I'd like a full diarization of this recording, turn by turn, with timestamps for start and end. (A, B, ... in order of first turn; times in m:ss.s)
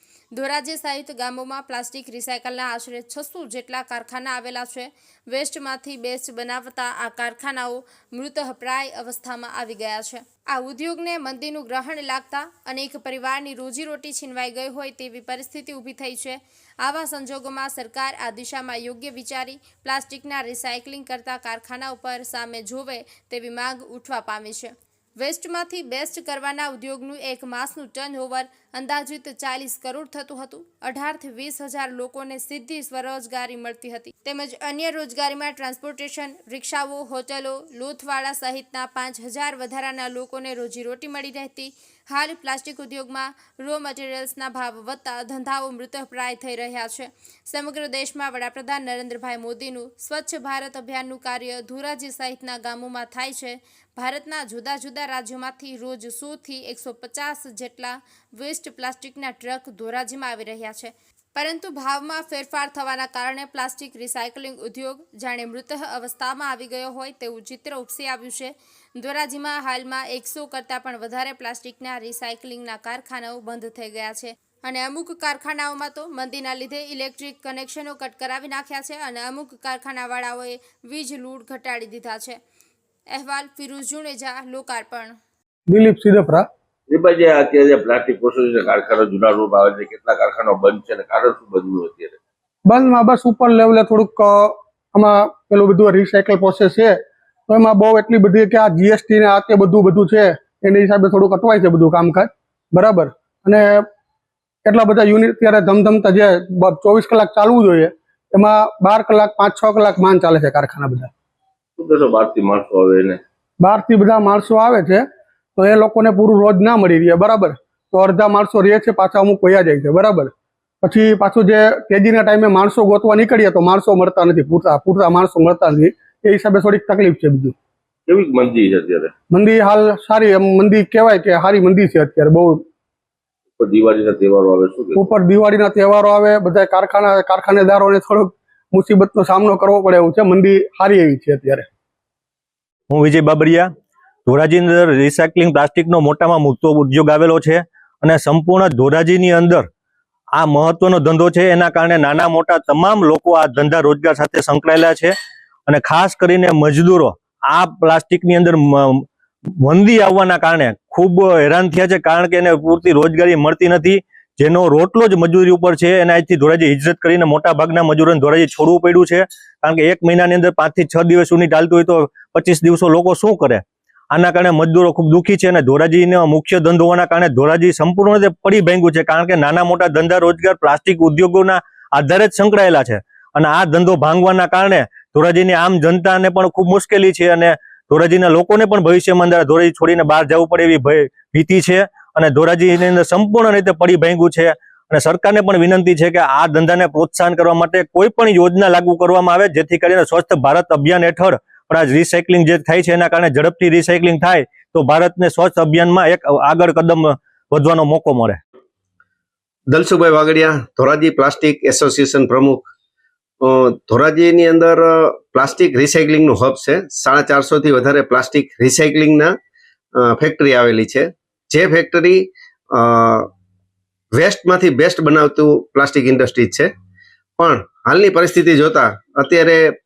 0:00.3-1:22.4 A
1:23.1-1:25.1 A
1:25.7-1:26.5 B
1:26.9-1:32.2 C
1:32.6-1:37.0 B
1:37.5-1:43.8 B
1:44.6-1:51.1 B
1:51.8-1:53.2 C
1:53.6-1:55.0 B
1:55.6-2:00.3 B
2:00.8-2:07.5 B
2:08.1-2:09.1 C
2:09.3-2:12.6 B
2:13.6-2:15.1 C
2:15.0-2:21.7 B
2:22.9-2:23.7 D
2:24.2-2:29.7 D
2:30.3-2:35.1 D
2:35.7-3:28.4 D
3:29.7-3:32.7 E
3:33.4-3:39.3 E
3:40.0-3:43.3 E
3:44.1-3:46.7 E
3:47.4-3:49.6 E